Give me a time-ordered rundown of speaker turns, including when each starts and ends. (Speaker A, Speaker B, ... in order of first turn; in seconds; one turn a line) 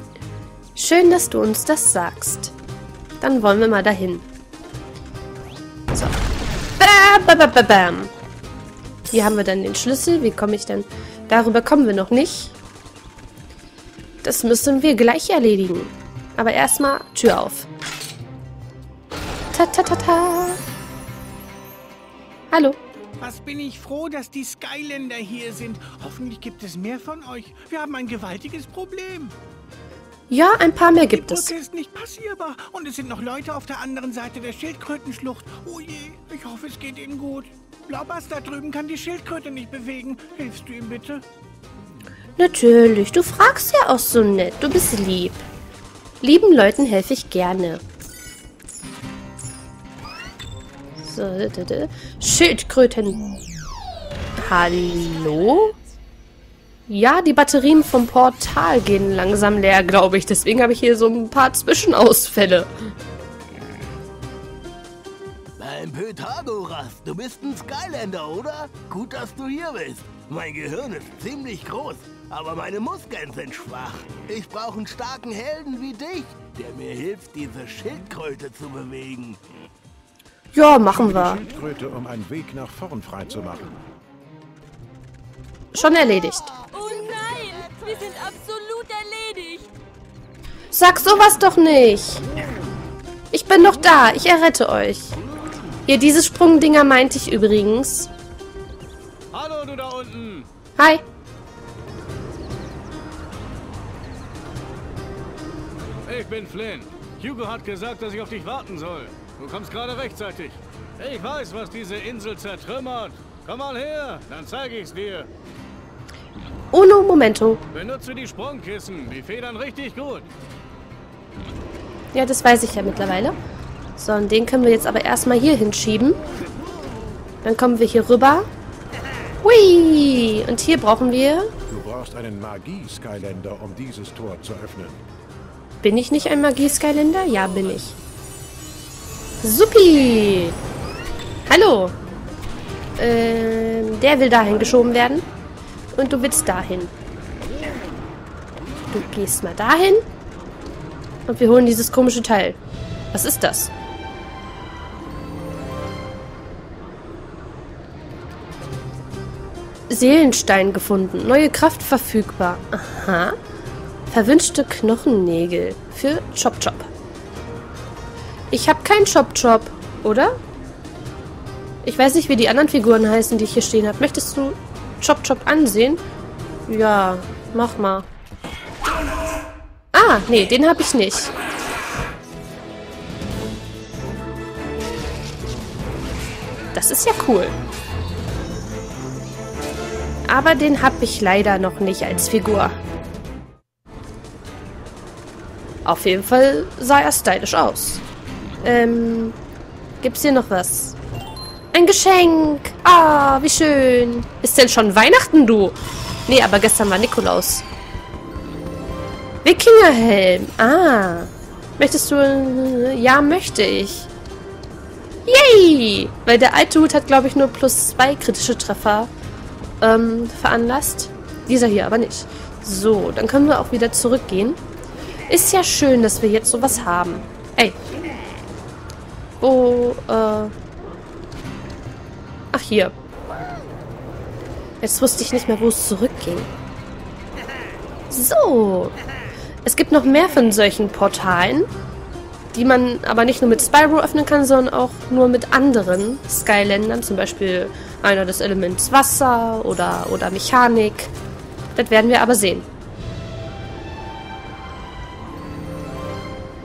Speaker A: 0.8-2.5
Speaker A: 3.2-4.2
Speaker A: 6.8-8.1
Speaker A: 9.1-12.6
Speaker A: 14.2-17.7
Speaker A: 19.5-20.6
Speaker A: 22.5-22.8
Speaker B: 23.2-29.3
Speaker A: 30.3-31.5
Speaker B: 31.1-41.2
Speaker A: 42.4-45.4
Speaker A: 46.2-47.8
Speaker A: 51.0-53.2
Speaker A: 54.4-55.8
Speaker A: 56.9-62.7
Speaker C: 65.6-79.4
Speaker A: 80.5-81.4
Speaker D: 80.8-83.8
Speaker A: 85.7-86.5
Speaker E: 86.7-89.7
Speaker A: 90.7-92.2
Speaker A: 93.3-95.1
Speaker A: 95.9-98.1
Speaker F: 99.3-100.5
Speaker A: 100.8-101.0
Speaker F: 106.1-115.3
Speaker A: 116.7-117.6
Speaker F: 117.7-120.3
Speaker A: 122.1-123.3
Speaker A: 124.0-126.2
Speaker A: 127.4-128.5
Speaker A: 129.4-131.5
Speaker D: 131.7-135.0
Speaker A: 135.8-137.9
Speaker A: 139.4-140.6
Speaker A: 141.5-141.9
Speaker A: 143.0-145.2
Speaker A: 145.9-146.9
Speaker A: 148.9-150.0
Speaker A: 151.3-152.6
Speaker A: 153.1-153.7
Speaker A: 159.9-163.3
Speaker A: 164.1-166.9
Speaker A: 168.5-170.4
Speaker A: 171.8-176.0
Speaker A: 176.7-178.1
Speaker A: 179.9-181.3
Speaker A: 186.7-187.5
Speaker A: 190.2-192.7
Speaker A: 195.8-198.0
Speaker A: 198.6-199.4
Speaker A: 200.0-201.0
Speaker A: 201.7-207.6
Speaker A: 209.4-214.1
Speaker A: 215.2-219.1
Speaker A: 219.8-224.6
Speaker A: 225.3-227.8
Speaker A: 229.4-230.5
Speaker A: 232.5-232.9
Speaker A: 234.8-236.5
Speaker A: 238.1-238.9
Speaker A: 239.6-241.7
Speaker A: 242.5-251.1
Speaker A: 251.8-252.7